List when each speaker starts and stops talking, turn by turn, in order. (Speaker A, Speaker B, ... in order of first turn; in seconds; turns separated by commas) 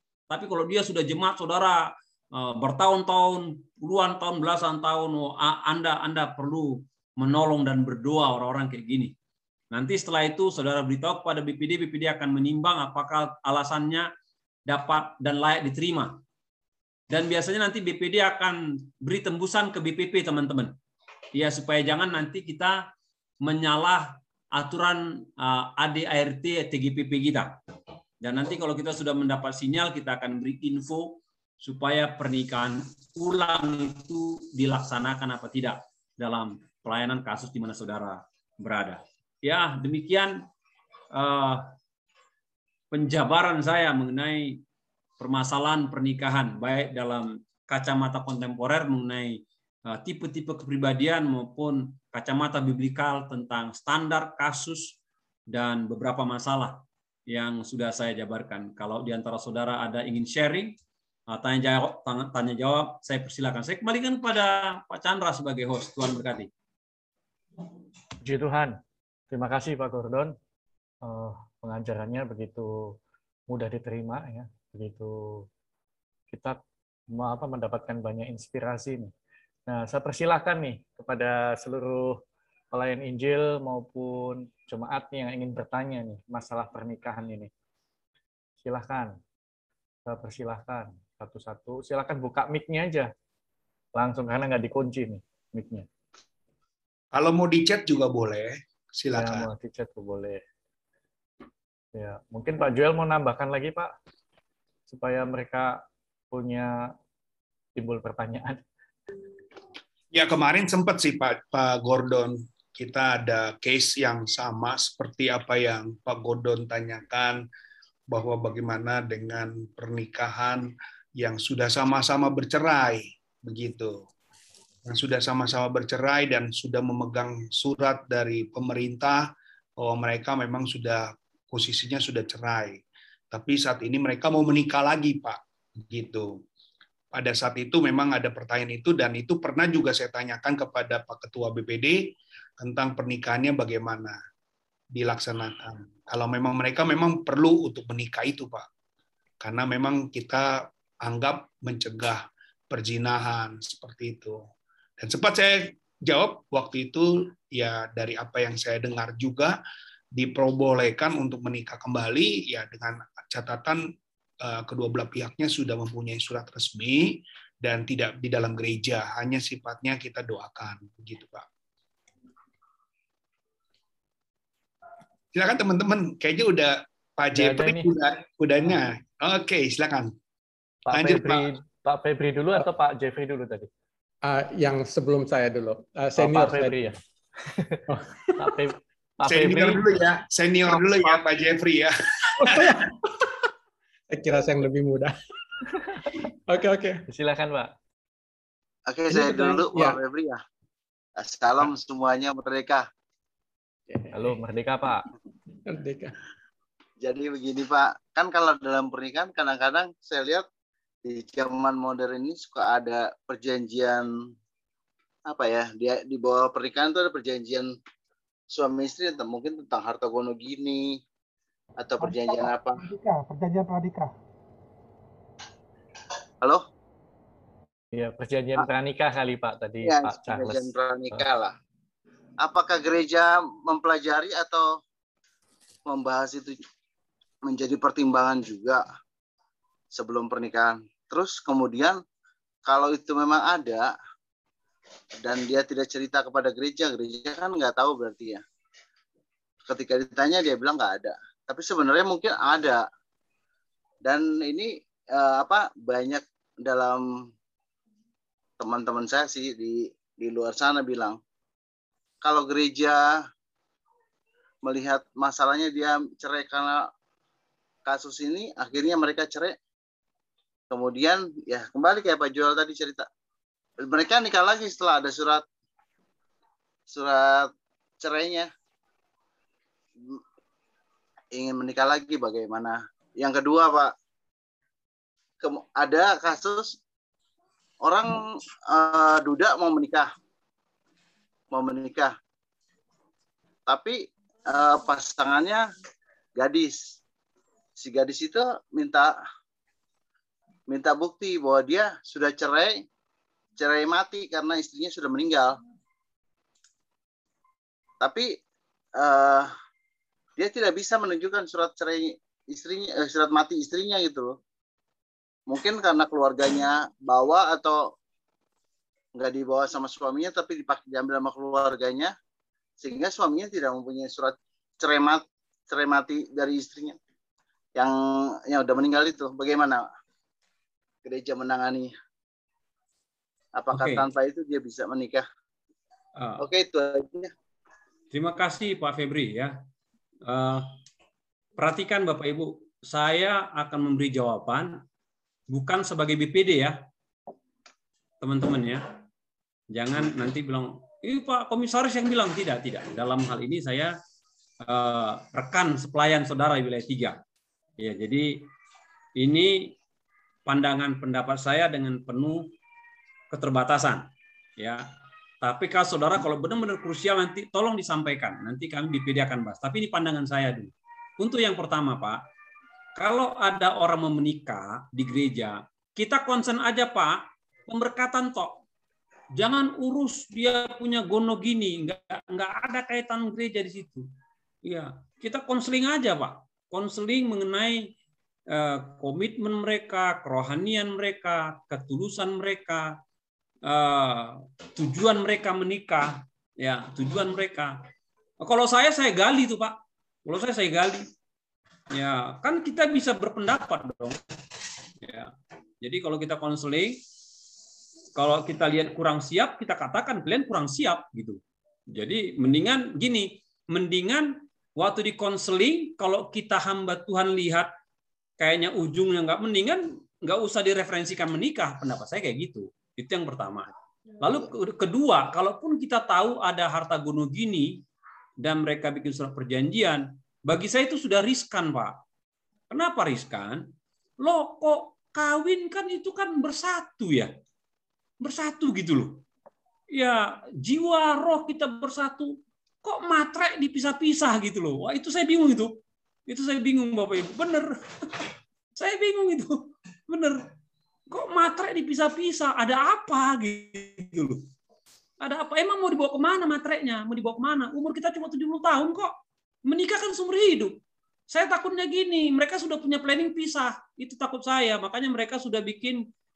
Speaker A: 0.3-9.1, Speaker A: 9.7-14.1, Speaker A: 14.7-16.2, Speaker A: 17.1-20.8, Speaker A: 21.3-22.9, Speaker A: 23.4-27.6, Speaker A: 28.2-40.5, Speaker A: 41.1-41.7, Speaker A: 42.9-44.6, Speaker A: 45.2-55.0, Speaker A: 55.5-60.8, Speaker A: 61.3-66.5, Speaker B: 68.2-68.8, Speaker B: 69.3-70.3, Speaker B: 71.0-73.0, Speaker B: 73.5-75.5, Speaker B: 76.3-76.6, Speaker B: 77.1-79.1, Speaker B: 79.7-87.5, Speaker B: 88.6-89.2, Speaker B: 90.1-93.1, Speaker B: 94.0-95.9, Speaker C: 97.1-99.5, Speaker B: 99.1-100.4, Speaker B: 102.0-103.9, Speaker B: 104.9-106.9, Speaker B: 107.8-108.6, Speaker C: 110.1-117.5, Speaker C: 118.1-124.1, Speaker C: 124.9-136.4, Speaker C: 137.1-144.2, Speaker C: 144.9-148.7, Speaker C: 149.4-159.6, Speaker C: 160.1-171.5, Speaker C: 175.3-180.1, Speaker B: 177.3-177.9, Speaker B: 180.9-183.7, Speaker C: 180.9-181.5, Speaker D: 184.2-186.8, Speaker B: 186.2-187.0, Speaker B: 187.6-187.8, Speaker D: 187.9-188.6, Speaker B: 188.4-190.0, Speaker C: 189.3-192.8, Speaker D: 192.4-193.3, Speaker D: 194.1-195.2, Speaker D: 196.5-197.0, Speaker B: 197.1-197.7, Speaker E: 198.9-200.4, Speaker D: 199.1-200.0, Speaker E: 201.2-202.9, Speaker D: 203.9-204.3, Speaker B: 204.1-205.1, Speaker D: 205.7-206.2, Speaker E: 207.0-210.4, Speaker E: 211.1-214.1, Speaker E: 215.3-217.7, Speaker E: 218.5-221.0, Speaker E: 221.8-222.8, Speaker F: 222.0-224.1, Speaker B: 227.9-231.3, Speaker E: 229.8-231.5, Speaker E: 232.4-234.8, Speaker E: 235.9-236.6, Speaker E: 237.4-238.8, Speaker E: 239.9-242.0, Speaker E: 242.7-243.9, Speaker E: 245.2-248.4, Speaker E: 249.7-252.8, Speaker E: 254.1-257.2, Speaker E: 258.6-261.2, Speaker E: 262.2-263.2, Speaker E: 264.6-266.9, Speaker E: 267.9-269.6, Speaker E: 270.7-273.1, Speaker E: 273.9-275.4, Speaker E: 276.9-277.5, Speaker E: 278.0-278.5, Speaker E: 281.3-283.9, Speaker E: 285.4-286.8, Speaker E: 287.8-290.1, Speaker E: 291.5-292.1, Speaker E: 293.7-295.6, Speaker E: 296.4-297.0, Speaker E: 297.8-299.1, Speaker E: 300.7-302.8, Speaker E: 303.6-305.6, Speaker E: 308.0-308.4, Speaker E: 309.0-309.5, Speaker E: 310.4-314.4, Speaker E: 315.5-317.9, Speaker E: 319.2-322.1, Speaker E: 322.8-327.0, Speaker E: 327.8-329.9, Speaker E: 331.1-331.9, Speaker E: 333.6-335.2, Speaker A: 333.7-334.1, Speaker A: 336.2-336.4, Speaker E: 336.4-337.3, Speaker A: 338.1-339.5, Speaker A: 340.3-340.7, Speaker A: 341.6-344.8, Speaker A: 345.5-346.8, Speaker A: 348.2-348.8, Speaker A: 349.7-353.9, Speaker A: 354.6-357.2, Speaker A: 357.8-358.5, Speaker A: 359.2-359.8, Speaker A: 360.5-362.5, Speaker A: 363.3-364.9, Speaker A: 365.4-372.2, Speaker A: 373.0-378.6, Speaker A: 379.4-384.1, Speaker A: 384.6-387.9, Speaker A: 388.5-393.0, Speaker A: 393.6-397.8, Speaker A: 398.4-401.1, Speaker A: 401.9-404.2, Speaker A: 405.0-407.0, Speaker A: 408.2-411.4, Speaker A: 411.9-417.7, Speaker A: 418.4-427.8, Speaker A: 428.4-432.0, Speaker A: 432.7-433.6, Speaker A: 434.2-437.3, Speaker A: 438.2-439.2, Speaker A: 439.9-448.2, Speaker A: 448.8-450.4, Speaker A: 451.1-454.4, Speaker A: 455.2-459.1, Speaker A: 459.7-460.8, Speaker A: 461.3-466.0